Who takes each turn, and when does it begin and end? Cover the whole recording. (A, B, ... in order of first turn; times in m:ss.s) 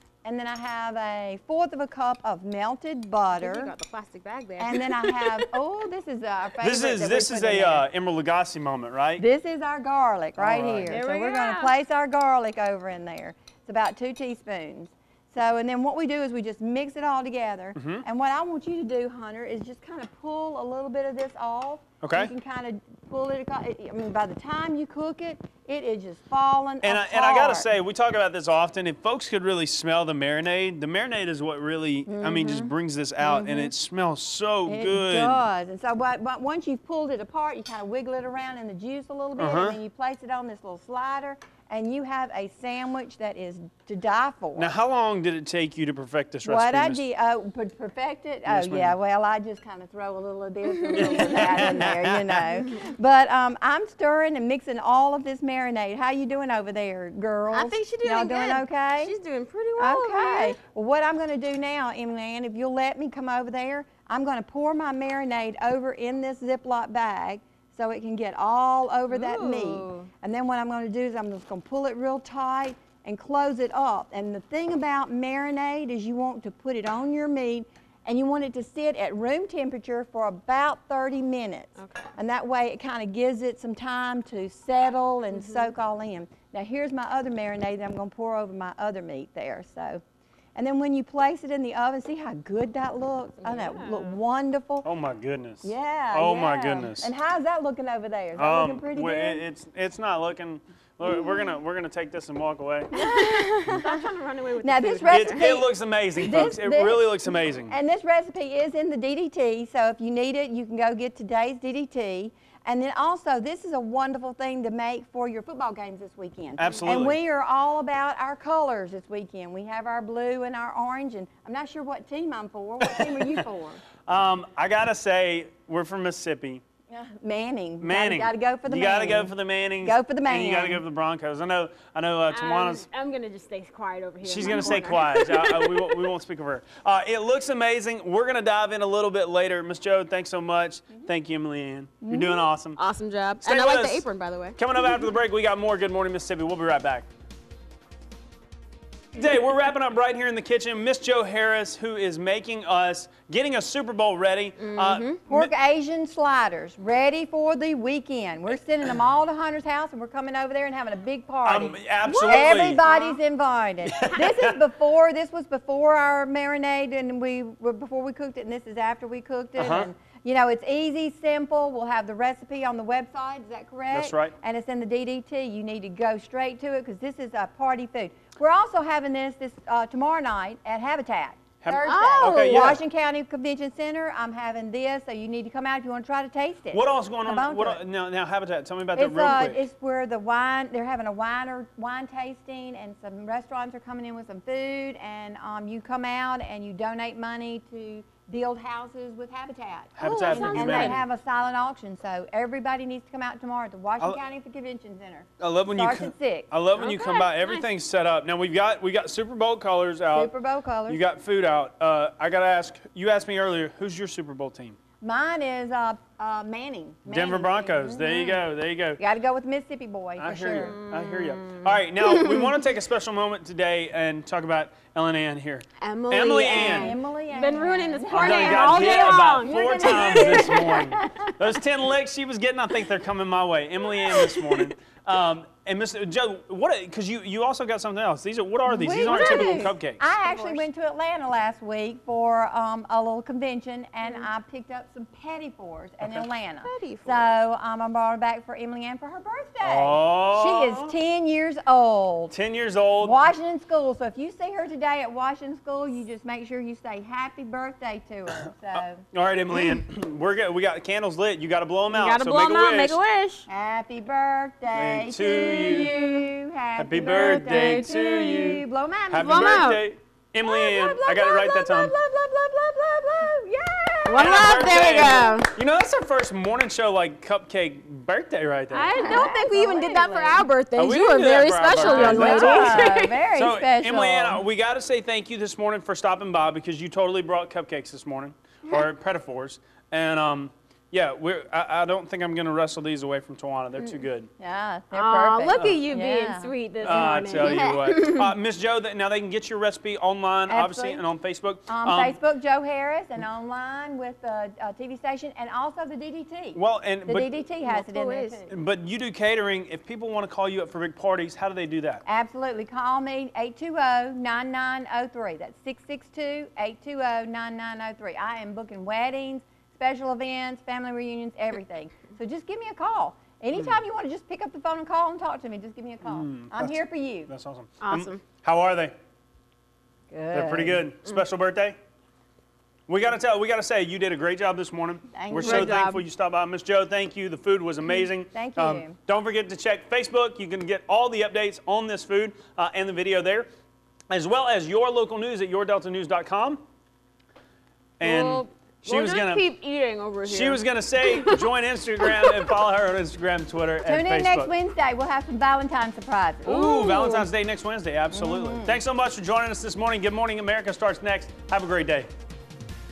0:00.2-0:03.7 A
0:03.4-0:05.4 B
0:04.6-0:07.9 A
0:06.6-0:09.2 C
0:09.2-0:27.7 A
0:10.4-0:11.0 C
0:10.9-0:11.8 B
0:17.8-0:18.0 C
0:22.0-0:22.3 C
0:26.8-0:35.4 C
0:32.1-0:33.7 A
0:34.7-0:44.7 A
0:39.4-0:39.8 C
0:44.6-0:47.0 C
0:46.4-0:59.1 A
0:48.4-0:49.0 C
0:50.8-0:51.2 B
0:50.9-0:52.4 C
0:57.5-1:00.6 B
0:59.8-1:30.0 A
1:09.1-1:10.1 B
1:21.8-1:22.1 B
1:25.3-1:25.7 B
1:30.6-1:34.9 A
1:33.4-1:34.2 B
1:34.8-1:37.1 C
1:35.6-1:39.4 A
1:38.4-1:42.9 C
1:41.0-1:41.4 A
1:42.9-1:44.0 A
1:42.9-1:45.6 B
1:44.6-2:03.8 A
1:45.1-1:47.7 C
1:56.6-1:57.2 C
2:02.8-2:03.4 C
2:04.1-2:06.6 C
2:06.9-2:10.8 A
2:07.8-2:12.9 C
2:12.3-2:16.0 B
2:14.2-2:22.8 C
2:14.5-2:14.8 A
2:22.0-2:22.5 A
2:22.8-2:24.6 B
2:23.4-2:24.0 C
2:24.6-2:27.1 C
2:29.1-2:35.5 C
2:34.6-2:35.2 B
2:35.3-3:07.8 A
2:41.4-2:42.8 C
2:42.0-2:43.2 B
2:43.9-2:44.6 C
2:49.6-2:49.9 C
2:53.9-2:54.4 C
3:01.6-3:02.8 C
3:01.8-3:02.8 B
3:06.7-3:09.7 C
3:09.0-3:26.5 A
3:20.0-3:21.0 C
3:20.0-3:21.0 B
3:25.4-3:30.3 C
3:26.8-3:27.7 B
3:30.1-3:31.0 A
3:30.9-3:34.8 C
3:35.0-3:38.4 A
3:37.1-3:39.0 C
3:39.0-3:40.8 A
3:40.2-3:47.0 C
3:40.5-3:42.4 B
3:45.8-3:50.9 B
3:46.4-3:51.3 A
3:48.1-4:00.0 C
3:54.1-3:54.7 B
3:58.7-4:12.3 A
3:58.9-4:00.6 B
4:04.0-4:04.3 B
4:06.6-4:07.4 B
4:09.6-4:10.9 C
4:12.3-4:13.2 C
4:13.0-4:19.0 A
4:18.7-4:23.0 C
4:21.9-4:23.5 B
4:23.5-4:29.5 A
4:24.7-4:26.0 C
4:25.9-4:26.3 B
4:26.8-4:32.0 C
4:27.2-4:27.9 B
4:29.2-4:29.8 B
4:30.4-4:35.3 A
4:34.1-4:35.5 B
4:34.2-4:39.1 C
4:38.7-4:43.1 B
4:38.9-4:40.5 A
4:40.8-4:54.3 C
4:41.8-4:44.4 A
4:54.4-4:57.4 A
4:54.9-4:58.3 B
4:55.5-4:55.8 C
4:56.8-5:02.2 C
5:00.5-5:01.0 A
5:01.7-5:08.4 A
5:06.6-5:07.3 C
5:07.6-5:08.5 B
5:08.5-5:12.0 C
5:12.0-5:27.3 A
5:26.0-5:26.8 C
5:27.3-5:28.9 C
5:27.8-5:28.2 B
5:30.1-5:30.9 A
5:30.3-5:31.8 C
5:32.9-5:43.5 C
5:35.1-5:35.9 A
5:35.3-5:36.0 B
5:38.3-5:39.0 A
5:44.1-5:46.6 C
5:48.0-5:49.4 C
5:48.0-5:52.6 B
5:50.2-5:54.5 C
5:53.8-5:56.6 A
5:56.4-6:02.1 C
5:56.5-5:57.3 B
5:58.1-5:58.8 A